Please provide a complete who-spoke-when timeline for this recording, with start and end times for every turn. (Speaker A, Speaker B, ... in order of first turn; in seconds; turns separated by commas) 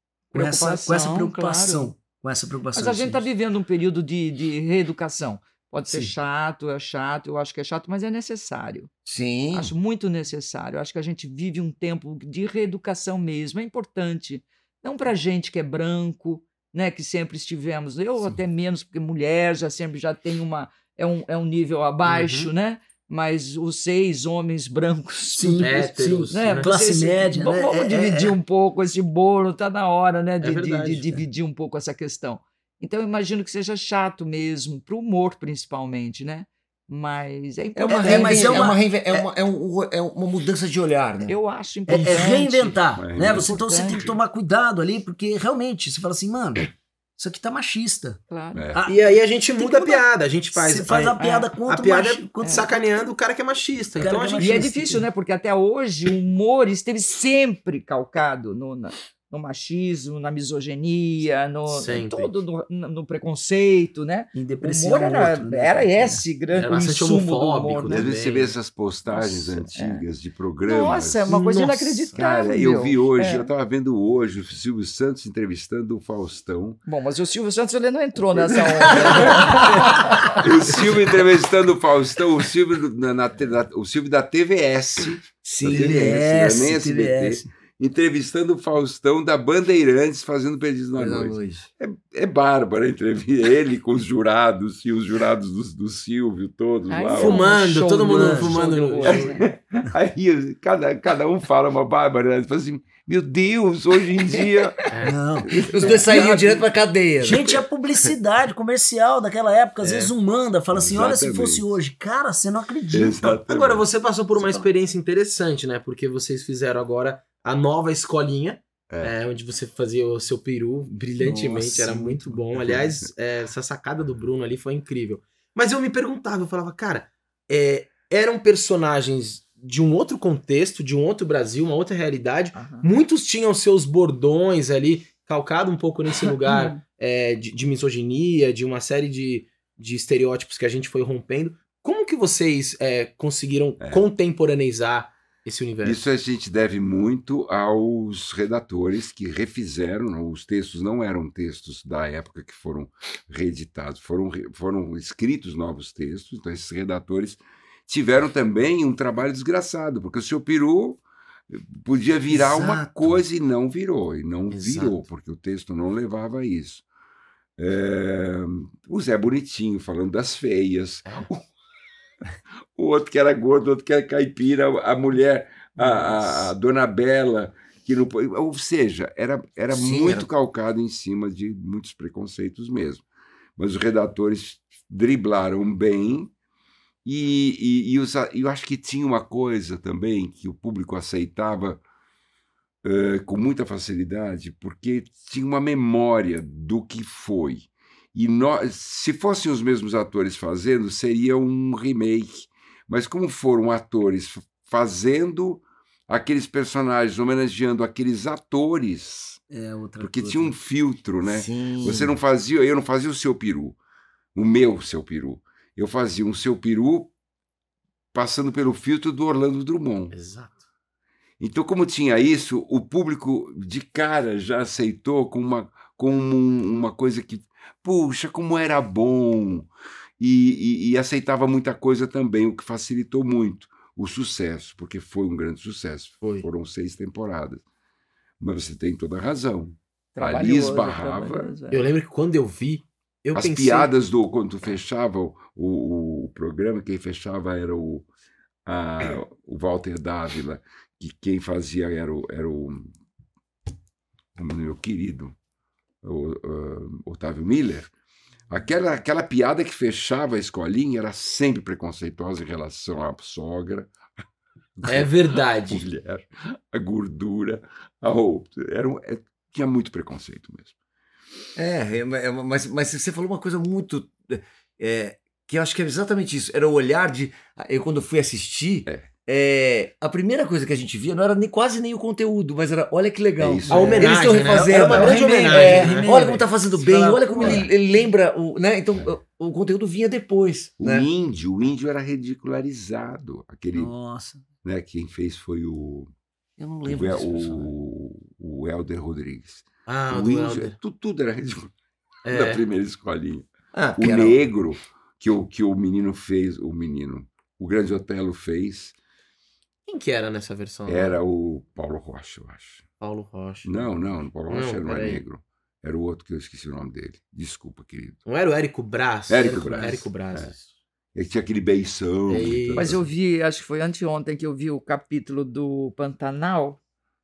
Speaker A: 0.3-3.2, Speaker B: 0.3-1.9, Speaker B: 2.7-8.9, Speaker C: 9.1-9.7, Speaker B: 9.5-25.8, Speaker D: 22.1-22.5, Speaker A: 25.3-28.4, Speaker D: 25.6-26.7, Speaker B: 26.3-38.8, Speaker D: 30.4-31.2, Speaker C: 37.7-41.4, Speaker A: 37.9-39.3, Speaker B: 41.2-44.1, Speaker A: 41.9-48.2, Speaker D: 41.9-42.3, Speaker E: 43.0-44.0, Speaker B: 48.3-48.7, Speaker E: 48.5-48.9, Speaker A: 48.7-52.7, Speaker D: 48.9-54.6, Speaker B: 51.2-51.5, Speaker B: 52.4-52.7, Speaker A: 54.0-55.0, Speaker B: 54.4-68.1, Speaker D: 61.7-62.3, Speaker A: 64.3-66.2, Speaker D: 66.5-68.5, Speaker E: 67.8-71.2, Speaker B: 69.1-70.0, Speaker B: 70.6-73.5, Speaker D: 71.3-72.2, Speaker E: 72.1-76.8, Speaker B: 76.8-80.2, Speaker E: 78.5-97.5, Speaker C: 85.4-86.3, Speaker A: 85.6-87.5, Speaker C: 91.0-91.7, Speaker B: 96.9-99.5, Speaker D: 97.1-99.3, Speaker A: 97.4-98.6, Speaker E: 99.0-104.9, Speaker D: 104.9-105.2, Speaker A: 105.0-106.6, Speaker E: 105.5-106.2, Speaker C: 105.5-107.6, Speaker A: 107.2-113.4, Speaker D: 109.8-110.1, Speaker E: 110.7-111.8, Speaker E: 112.9-113.8, Speaker D: 113.4-146.1, Speaker A: 114.3-114.7, Speaker A: 121.2-122.3, Speaker B: 132.5-132.9, Speaker B: 136.4-136.8, Speaker E: 143.8-144.1, Speaker E: 145.8-166.8, Speaker C: 162.3-163.2, Speaker D: 164.5-165.0, Speaker E: 167.6-171.4, Speaker E: 172.7-183.0, Speaker C: 179.7-180.3, Speaker E: 183.6-186.3, Speaker E: 187.0-191.8, Speaker E: 192.8-209.4, Speaker A: 209.5-210.5, Speaker E: 210.0-213.8, Speaker C: 211.2-212.1, Speaker E: 214.3-217.1, Speaker E: 218.1-220.1, Speaker D: 220.1-220.5, Speaker E: 221.4-237.6, Speaker D: 236.2-236.5, Speaker E: 238.4-241.5, Speaker B: 240.1-241.8, Speaker D: 241.7-243.9, Speaker E: 243.3-248.1, Speaker E: 248.7-252.9, Speaker E: 254.3-255.3, Speaker E: 256.0-257.9, Speaker E: 258.5-263.9, Speaker E: 264.8-270.7, Speaker D: 264.9-265.8, Speaker C: 271.6-291.1, Speaker E: 283.4-284.0, Speaker A: 283.7-287.7, Speaker D: 283.7-286.3, Speaker E: 290.8-293.9, Speaker A: 293.7-294.4, Speaker E: 294.6-296.1, Speaker C: 296.6-297.7, Speaker E: 296.9-301.7, Speaker D: 299.9-300.8, Speaker D: 302.2-302.6, Speaker E: 302.3-308.9, Speaker C: 303.7-304.4, Speaker D: 309.9-311.2, Speaker E: 310.9-312.8, Speaker D: 313.0-313.9, Speaker E: 313.6-318.2, Speaker D: 314.5-315.2, Speaker D: 318.2-320.5, Speaker E: 319.3-320.5, Speaker A: 319.4-320.1, Speaker E: 321.1-323.0, Speaker D: 322.3-322.9, Speaker B: 322.8-326.8